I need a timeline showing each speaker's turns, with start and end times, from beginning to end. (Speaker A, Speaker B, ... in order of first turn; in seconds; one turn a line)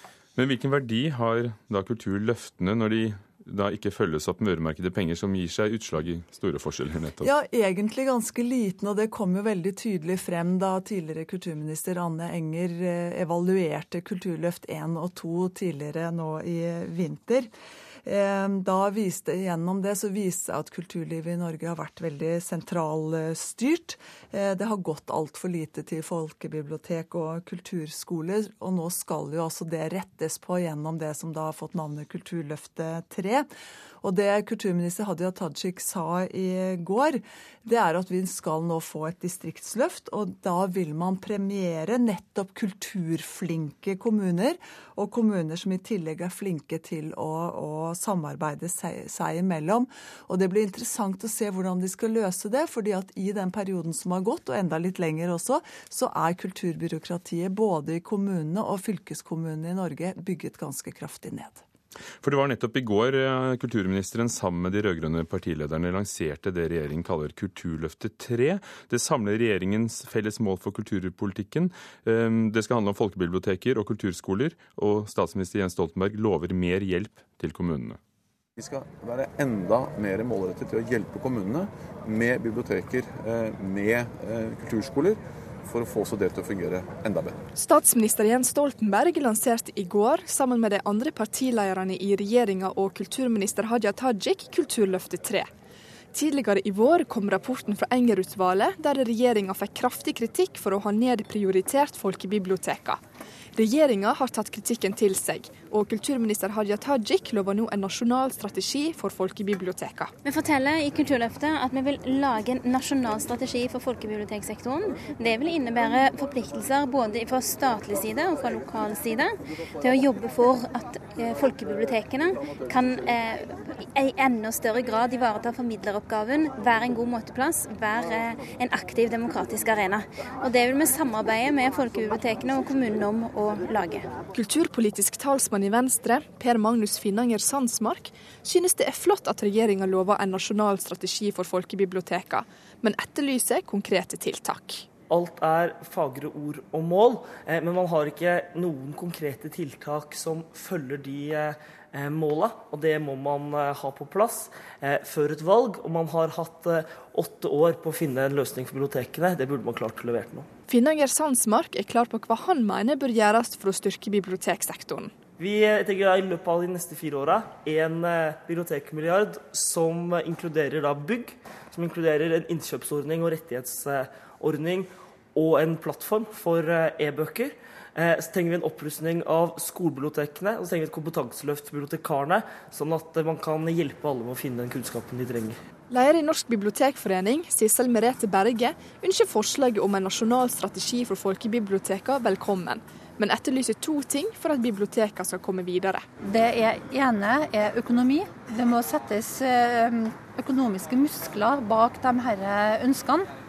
Speaker A: 0.3-7.3
Speaker B: 7.2-17.5
Speaker B: 18.0-33.5
Speaker B: 34.0-61.6
Speaker A: 62.2-78.0
Speaker C: 78.6-87.4
Speaker D: 87.5-95.5
Speaker D: 96.1-103.0
Speaker D: 103.5-110.1
Speaker E: 110.2-134.1
Speaker D: 134.3-144.9
Speaker F: 145.1-160.5
Speaker D: 160.7-165.1
Speaker F: 165.4-185.6
Speaker D: 185.9-196.1
Speaker G: 196.6-197.7
Speaker G: 198.2-199.3
Speaker G: 200.1-202.2